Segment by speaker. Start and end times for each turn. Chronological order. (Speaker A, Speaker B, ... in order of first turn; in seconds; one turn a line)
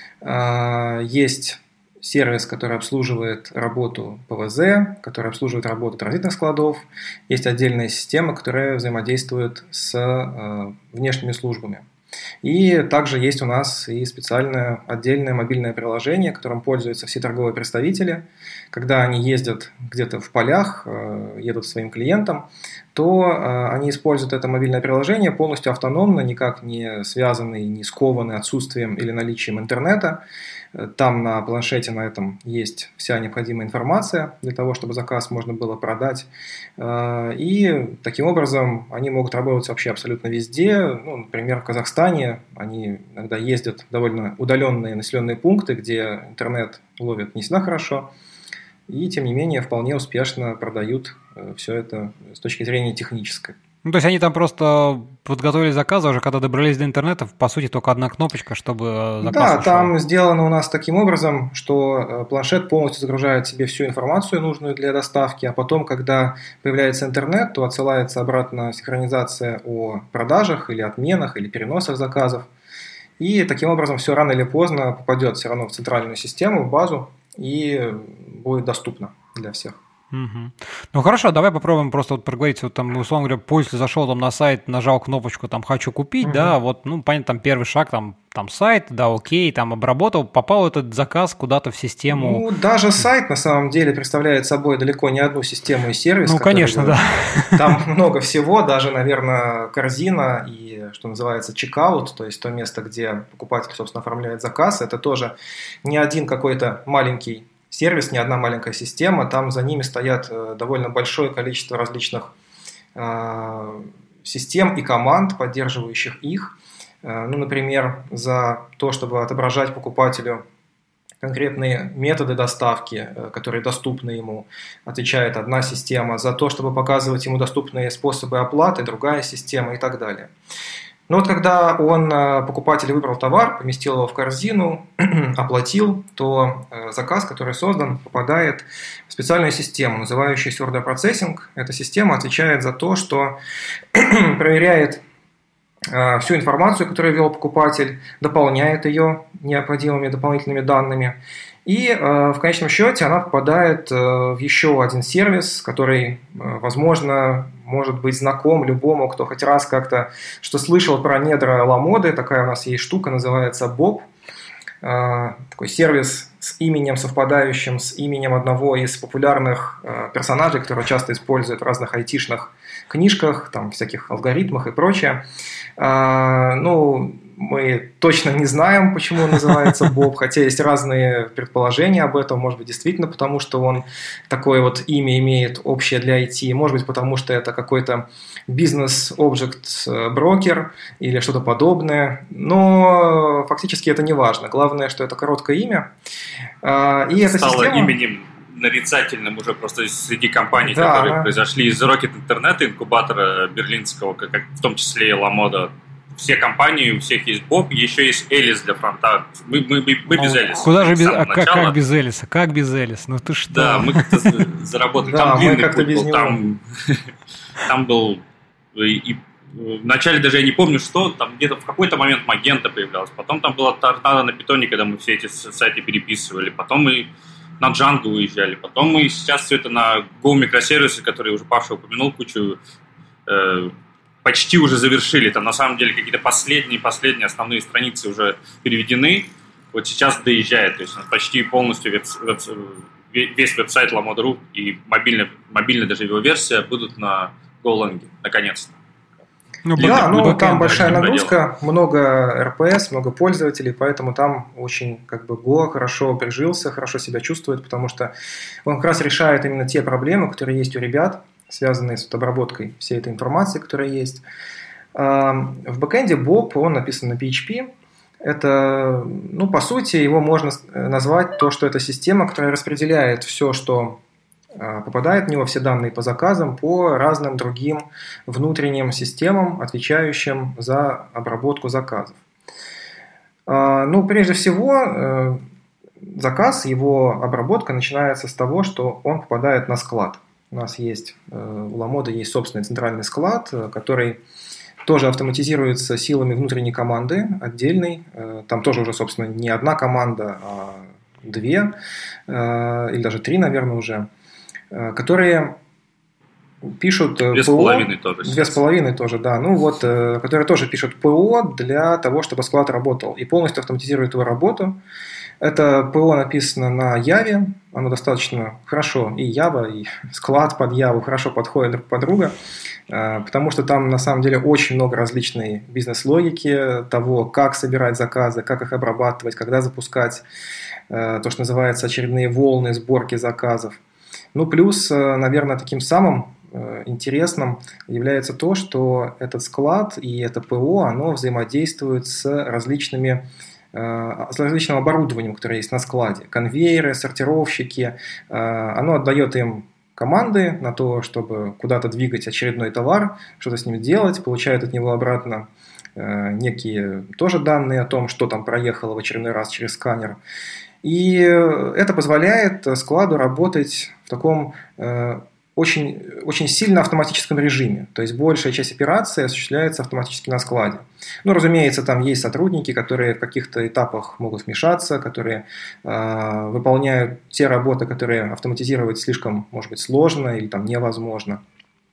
Speaker A: 0.2-11.8
Speaker A: 12.4-30.2
Speaker A: 30.7-48.1
Speaker A: 48.9-53.5
Speaker B: 53.8-59.9
Speaker A: 59.2-72.5
Speaker A: 73.2-79.8
Speaker B: 80.1-92.4
Speaker A: 86.2-86.5
Speaker A: 92.1-112.3
Speaker B: 96.2-97.7
Speaker A: 112.9-120.4
Speaker A: 121.2-130.3
Speaker A: 131.1-143.4
Speaker A: 143.9-145.0
Speaker A: 145.9-164.1
Speaker A: 164.8-175.2
Speaker A: 175.8-195.9
Speaker A: 196.6-197.9
Speaker C: 197.2-211.7
Speaker A: 200.5-201.3
Speaker B: 210.1-214.3
Speaker C: 213.5-217.1
Speaker A: 215.0-216.4
Speaker C: 217.6-218.2
Speaker C: 218.7-232.6
Speaker C: 233.3-248.7
Speaker B: 249.7-251.1
Speaker A: 249.8-258.1
Speaker C: 249.8-251.3
Speaker A: 258.6-264.2
Speaker A: 264.9-267.7
Speaker A: 268.2-274.0
Speaker A: 274.6-282.2
Speaker A: 283.5-285.4
Speaker A: 286.0-294.2
Speaker A: 294.8-301.7
Speaker A: 302.3-304.1
Speaker A: 304.7-305.6
Speaker A: 306.7-314.8
Speaker C: 307.3-308.6
Speaker A: 315.4-322.3
Speaker A: 322.9-330.2
Speaker A: 330.9-333.8
Speaker A: 334.3-360.2
Speaker A: 360.8-381.4